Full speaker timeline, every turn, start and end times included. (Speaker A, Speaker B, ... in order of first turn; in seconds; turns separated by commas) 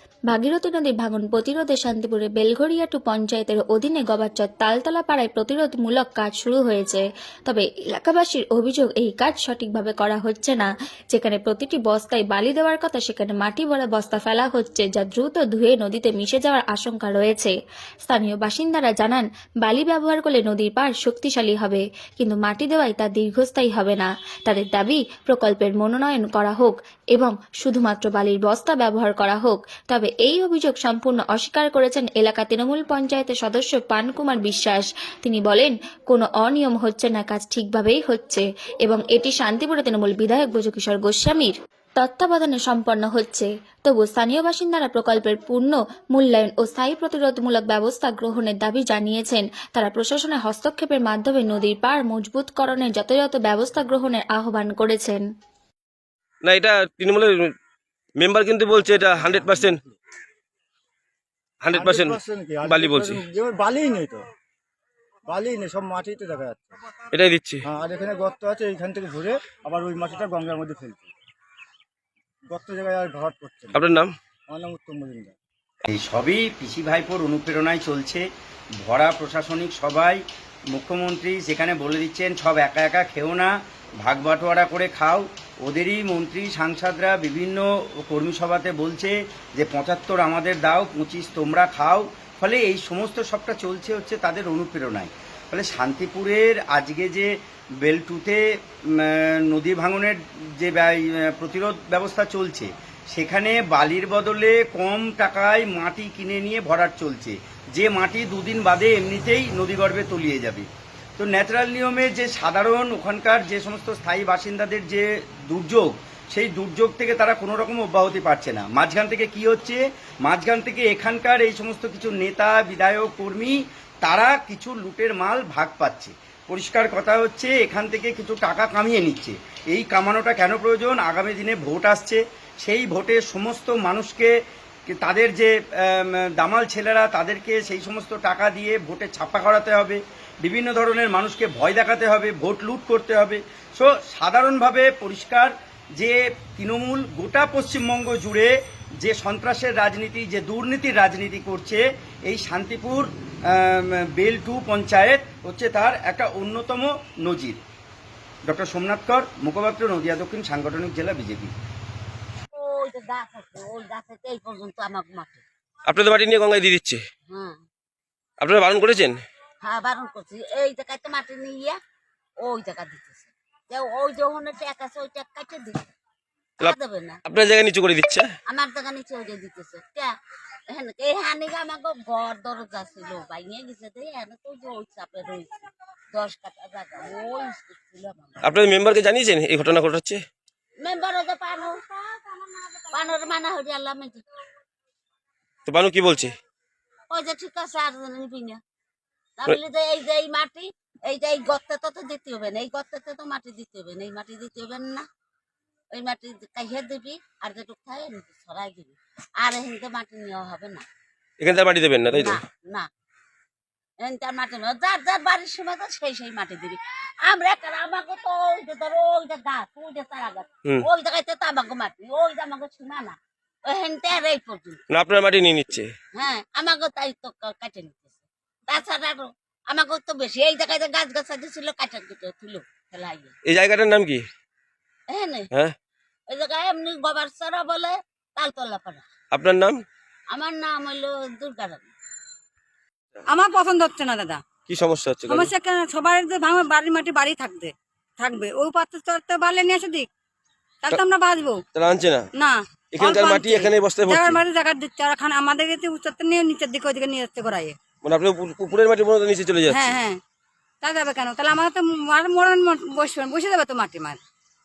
Speaker A: 0.3-17.5, Speaker A: 18.1-55.2, Speaker B: 56.5-57.4, Speaker B: 58.2-59.8, Speaker B: 61.6-63.2, Speaker C: 61.7-64.2, Speaker C: 65.3-66.7, Speaker B: 67.1-67.6, Speaker C: 67.7-71.0, Speaker C: 72.5-73.8, Speaker B: 73.7-74.1, Speaker C: 74.5-75.3, Speaker D: 75.9-78.3, Speaker D: 78.8-80.2, Speaker D: 80.7-83.5, Speaker D: 84.0-98.4, Speaker D: 98.9-110.7, Speaker D: 111.2-134.3, Speaker D: 134.9-148.5, Speaker D: 149.0-157.6, Speaker D: 158.5-161.5, Speaker E: 162.5-165.4, Speaker B: 165.9-167.0, Speaker E: 167.3-167.6, Speaker B: 168.4-169.2, Speaker E: 169.6-171.8, Speaker E: 172.4-175.8, Speaker B: 176.6-178.3, Speaker E: 176.6-177.2, Speaker E: 178.5-180.1, Speaker E: 180.7-185.5, Speaker E: 186.1-188.4, Speaker B: 188.4-190.2, Speaker E: 190.8-191.8, Speaker E: 192.3-194.2, Speaker B: 195.7-196.3, Speaker E: 197.1-198.6, Speaker E: 199.4-205.1, Speaker E: 205.9-210.8, Speaker B: 211.4-212.4, Speaker E: 212.1-212.9, Speaker E: 214.0-224.8, Speaker B: 224.9-225.9, Speaker E: 226.2-233.3, Speaker B: 233.5-234.2, Speaker E: 235.1-235.5, Speaker E: 236.3-239.1, Speaker B: 239.3-239.8, Speaker E: 240.3-241.9, Speaker F: 243.3-244.4, Speaker B: 244.7-245.5, Speaker F: 245.3-250.1, Speaker F: 250.8-251.6, Speaker B: 251.7-252.3, Speaker F: 252.3-257.8, Speaker B: 252.9-254.4, Speaker B: 258.0-260.0, Speaker F: 259.7-260.2, Speaker F: 260.8-264.2